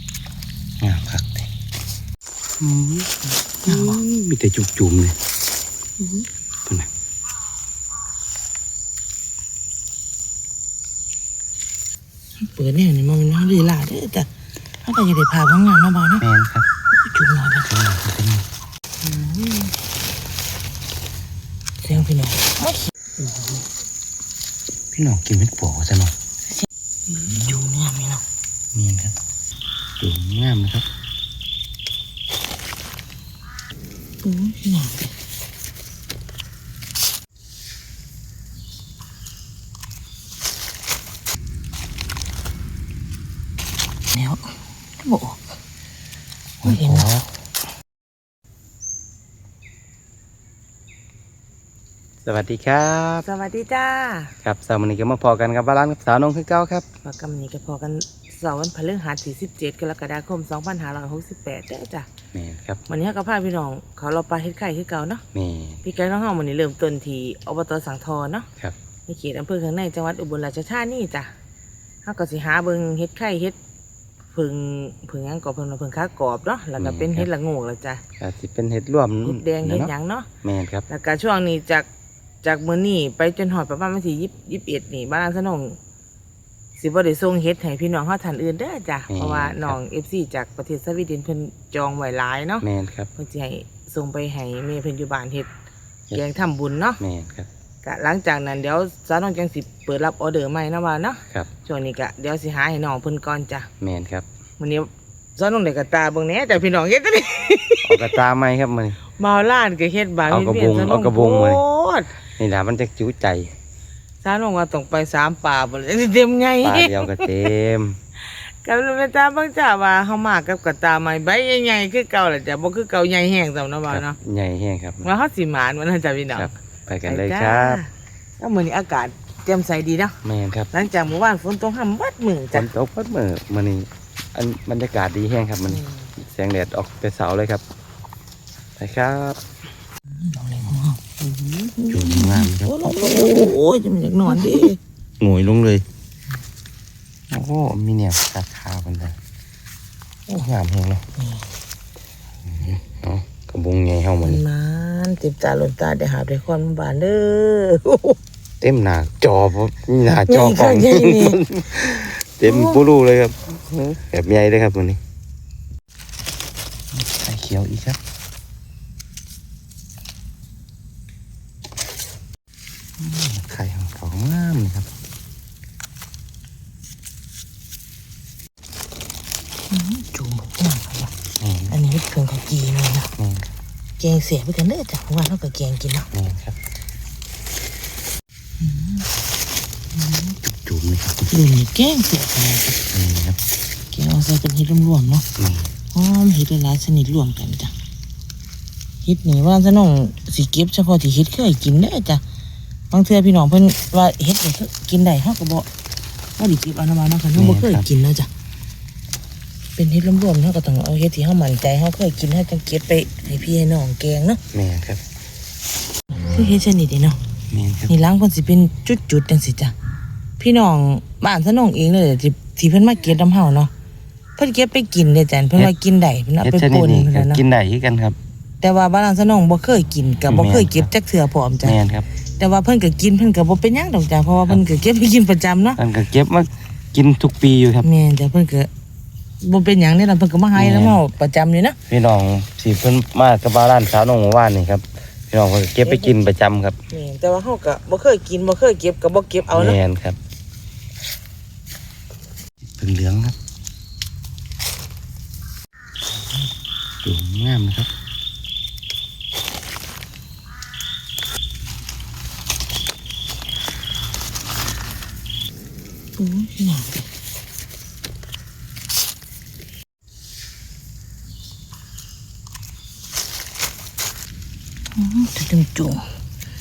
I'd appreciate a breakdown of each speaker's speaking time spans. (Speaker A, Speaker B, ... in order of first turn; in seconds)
Speaker A: 0.8-1.5, 2.6-5.2, 16.2-16.7, 17.7-18.4, 24.9-26.1, 27.2-27.6, 28.7-29.1, 30.0-30.9, 46.6-47.3, 52.2-53.3, 54.4-56.8, 62.3-62.8, 65.3-65.8, 76.8-77.3, 78.2-80.9, 89.1-89.8, 92.6-93.1, 97.0-97.5, 103.8-104.3, 107.8-109.0, 110.3-111.6, 112.4-113.5, 116.6-118.0, 123.9-125.1, 126.3-127.8, 130.2-130.7, 132.5-137.6, 138.8-139.4, 141.2-143.6, 144.3-144.7, 145.2-145.8, 147.3-149.2, 150.3-151.0, 152.4-154.4, 158.6-165.0, 166.9-168.0, 173.0-174.9, 181.4-181.8, 183.2-183.5, 186.1-186.6, 190.4-191.3, 192.9-193.4, 195.4-195.7, 207.3-207.9, 214.5-215.0, 217.5-217.9, 226.4-228.2, 230.2-230.9, 231.6-232.1, 235.7-237.9, 240.5-241.0, 241.9-246.8, 249.5-250.2, 252.8-253.3, 257.0-257.9
Speaker B: 3.6-4.0, 6.0-6.2, 12.4-14.3, 14.8-16.2, 17.0-17.7, 19.0-19.7, 21.8-23.6, 27.1-28.2, 34.2-35.1, 44.1-45.4, 46.6-47.1, 53.2-54.3, 57.0-62.1, 62.9-65.2, 65.8-68.5, 69.1-71.3, 72.0-73.5, 74.3-78.0, 79.2-80.3, 80.9-81.9, 82.4-85.8, 86.8-92.6, 93.2-95.5, 96.1-97.0, 97.8-103.7, 104.6-108.2, 109.1-112.1, 114.2-117.3, 118.3-124.2, 125.0-126.5, 127.0-130.2, 130.7-132.7, 135.7-136.1, 140.2-141.0, 141.8-144.8, 151.2-151.4, 154.2-158.2, 160.2-161.5, 162.4-162.8, 179.7-181.1, 181.7-183.1, 184.0-186.1, 188.6-189.1, 190.0-190.3, 191.3-192.8, 193.9-195.2, 195.9-197.7, 199.0-202.2, 202.9-205.7, 206.4-208.3, 209.8-214.4, 216.2-217.2, 217.9-219.7, 220.4-223.7, 224.4-227.4, 228.6-231.8, 232.4-235.8, 237.8-238.7, 239.4-241.8, 245.8-246.2, 246.9-249.8, 266.2-267.0, 274.9-276.0